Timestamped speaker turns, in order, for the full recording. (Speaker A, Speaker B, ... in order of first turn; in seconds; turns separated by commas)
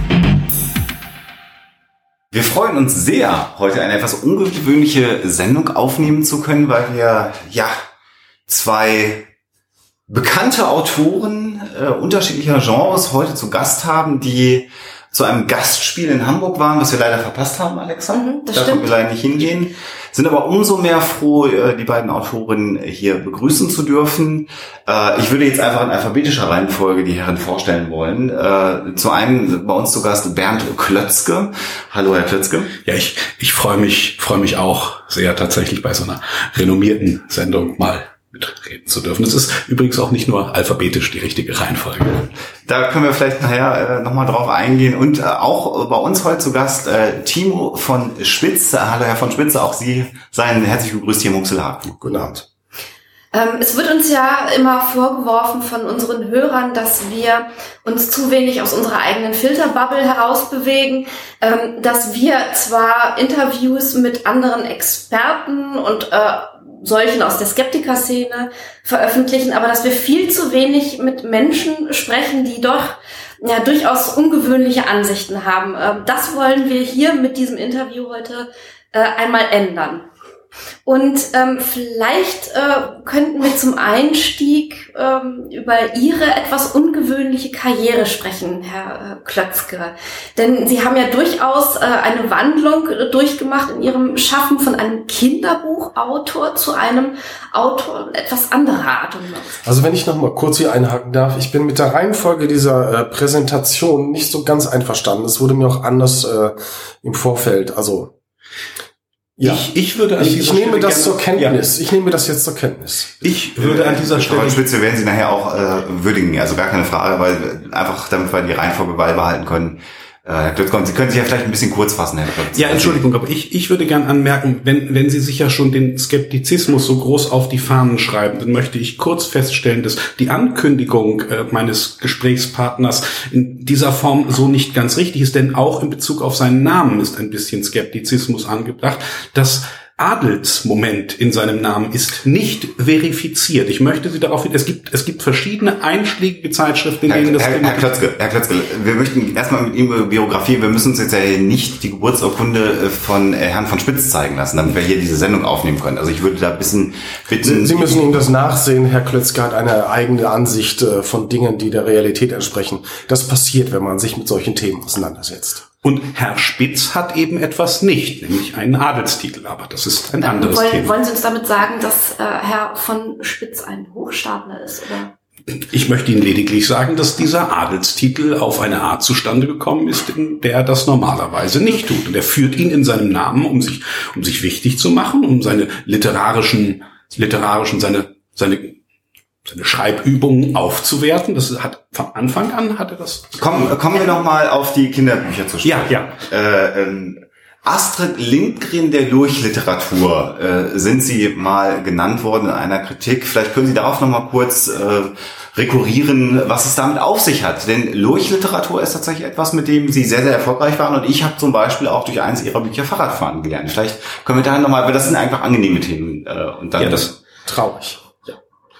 Speaker A: 2.3-7.7, Speaker A: 8.5-9.2, Speaker A: 10.1-32.7, Speaker B: 18.1-18.9, Speaker C: 32.9-42.3, Speaker A: 42.6-52.0, Speaker D: 52.0-52.4, Speaker B: 53.3-80.1, Speaker B: 80.8-99.6, Speaker D: 99.6-108.1, Speaker D: 109.4-109.7, Speaker C: 109.4-111.6, Speaker D: 110.2-113.1, Speaker C: 113.2-114.6, Speaker A: 113.6-123.0, Speaker C: 122.5-148.0, Speaker A: 147.1-158.1, Speaker D: 157.4-165.6, Speaker C: 165.8-170.9, Speaker B: 170.2-175.1, Speaker C: 175.6-188.8, Speaker C: 189.4-193.7, Speaker A: 193.4-217.1, Speaker C: 195.6-196.2, Speaker C: 216.8-217.1, Speaker D: 217.4-218.3